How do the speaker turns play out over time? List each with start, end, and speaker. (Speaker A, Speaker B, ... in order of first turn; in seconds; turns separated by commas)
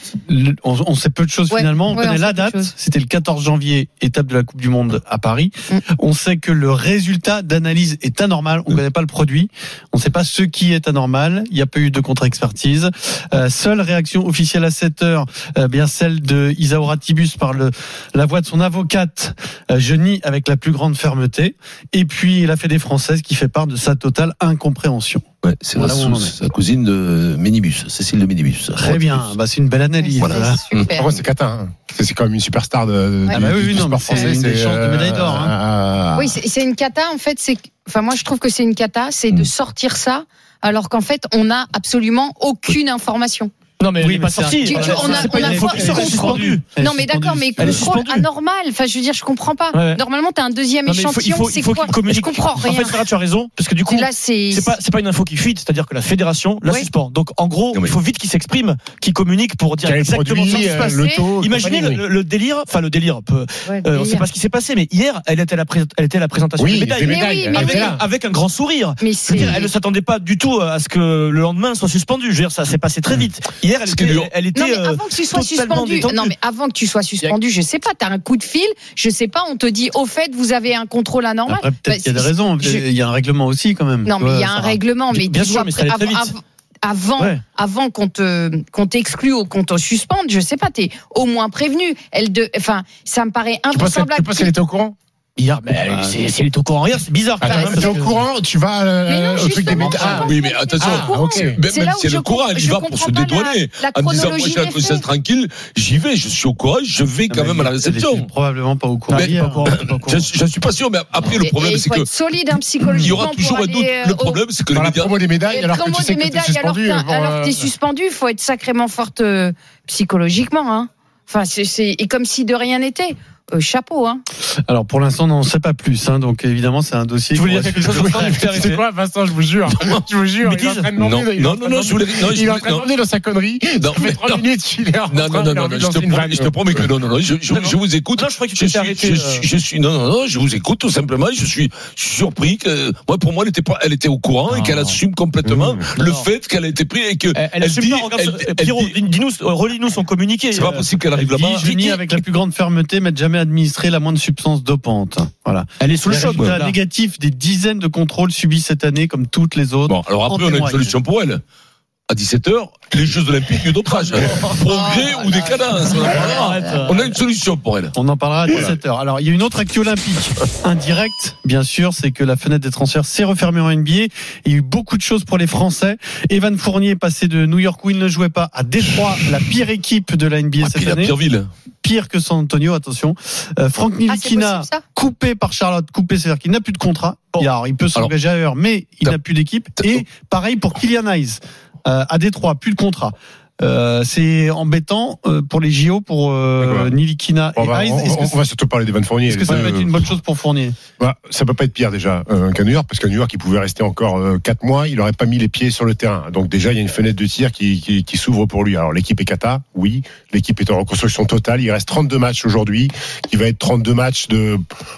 Speaker A: 0.3-25.2, Speaker B: 1.5-2.7, Speaker C: 25.4-29.3, Speaker A: 25.8-26.3, Speaker A: 28.8-30.6, Speaker B: 30.0-31.1, Speaker C: 30.2-31.0, Speaker D: 30.9-36.3, Speaker A: 33.3-35.5, Speaker B: 36.1-43.5, Speaker E: 43.8-46.6, Speaker A: 44.0-47.9, Speaker B: 44.6-53.0, Speaker E: 47.6-48.2, Speaker E: 49.7-50.0, Speaker E: 50.9-76.3, Speaker B: 53.9-54.7, Speaker C: 57.7-58.0, Speaker D: 59.8-62.0, Speaker B: 60.5-61.2, Speaker B: 63.6-64.3, Speaker D: 66.6-68.0, Speaker B: 67.0-67.9, Speaker B: 69.0-69.7, Speaker C: 73.8-74.3, Speaker B: 74.5-82.8, Speaker A: 81.5-84.8, Speaker B: 84.0-94.5, Speaker E: 85.1-86.3, Speaker D: 93.7-95.0, Speaker E: 95.4-98.2, Speaker A: 95.9-96.2, Speaker D: 97.4-101.6, Speaker B: 97.4-98.0, Speaker B: 99.1-105.1, Speaker C: 99.7-108.3, Speaker A: 107.3-110.2, Speaker E: 109.1-110.2, Speaker C: 109.1-112.1, Speaker B: 111.4-114.4, Speaker C: 113.0-115.1, Speaker D: 114.7-117.7, Speaker B: 115.5-124.2, Speaker A: 124.7-128.4, Speaker E: 127.3-128.8, Speaker D: 127.8-136.9, Speaker C: 129.7-130.0, Speaker E: 130.4-130.9, Speaker C: 131.0-132.9, Speaker C: 133.8-134.4, Speaker C: 135.1-149.0, Speaker E: 137.5-139.5, Speaker E: 144.5-144.9, Speaker D: 145.4-145.9, Speaker E: 145.9-146.3, Speaker E: 147.3-150.9, Speaker C: 150.5-152.0, Speaker A: 151.1-160.9, Speaker E: 155.8-156.8, Speaker C: 159.8-161.4, Speaker C: 162.1-167.9, Speaker E: 164.2-164.6, Speaker E: 165.8-167.1, Speaker A: 167.9-181.1, Speaker C: 168.5-168.8, Speaker C: 180.6-181.5, Speaker A: 181.8-198.4, Speaker B: 184.1-184.8, Speaker C: 189.8-190.0, Speaker D: 196.6-196.9, Speaker D: 197.6-199.9, Speaker A: 199.3-200.8, Speaker D: 201.0-214.6